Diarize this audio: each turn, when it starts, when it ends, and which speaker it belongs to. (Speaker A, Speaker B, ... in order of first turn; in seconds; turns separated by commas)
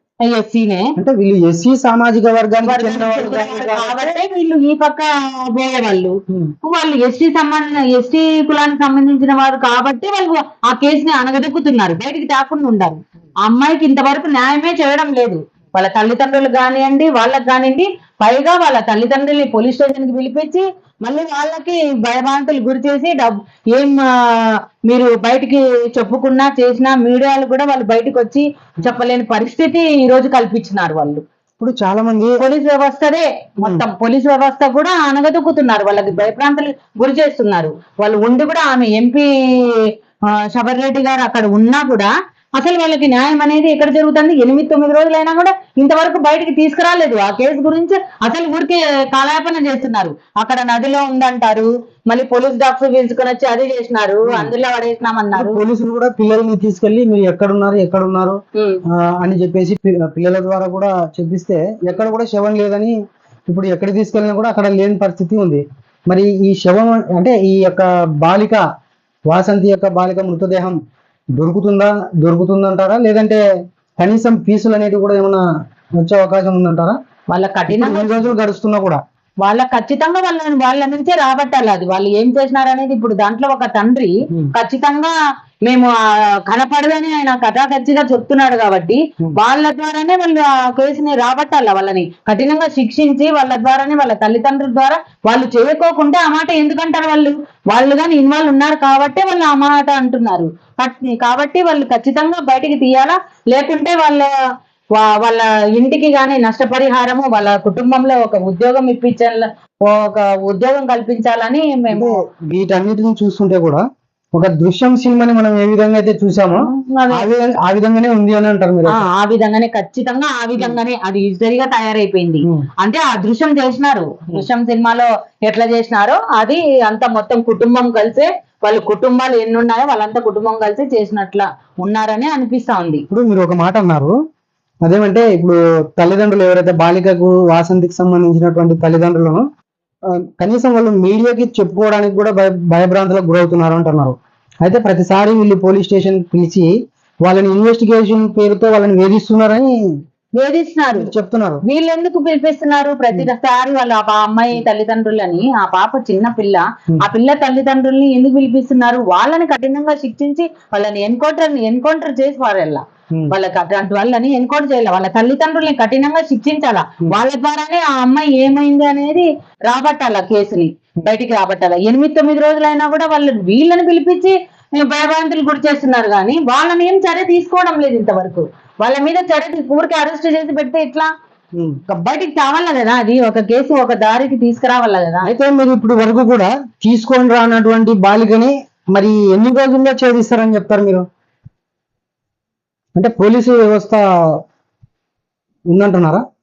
Speaker A: 0.2-0.9, Speaker B: 1.0-4.1, Speaker A: 2.6-31.2, Speaker B: 31.6-32.4, Speaker A: 32.4-55.6, Speaker B: 55.3-58.4, Speaker A: 58.5-58.8, Speaker B: 58.9-63.0, Speaker B: 63.5-68.6, Speaker B: 69.3-70.8, Speaker B: 71.4-73.4, Speaker B: 74.0-75.4, Speaker B: 76.0-77.0, Speaker A: 77.3-78.3, Speaker B: 77.7-79.0, Speaker A: 79.4-85.2, Speaker A: 85.7-85.9, Speaker A: 86.5-104.3, Speaker A: 105.0-112.2, Speaker B: 111.9-113.8, Speaker B: 114.3-119.0, Speaker A: 116.5-117.3, Speaker A: 118.9-133.1, Speaker B: 133.1-134.2, Speaker B: 134.8-139.4, Speaker B: 140.2-146.7, Speaker B: 147.2-149.8, Speaker A: 150.4-151.1, Speaker B: 150.9-151.6, Speaker A: 151.6-181.1, Speaker A: 181.9-185.3, Speaker B: 185.2-191.1, Speaker B: 193.0-194.4, Speaker B: 195.7-196.2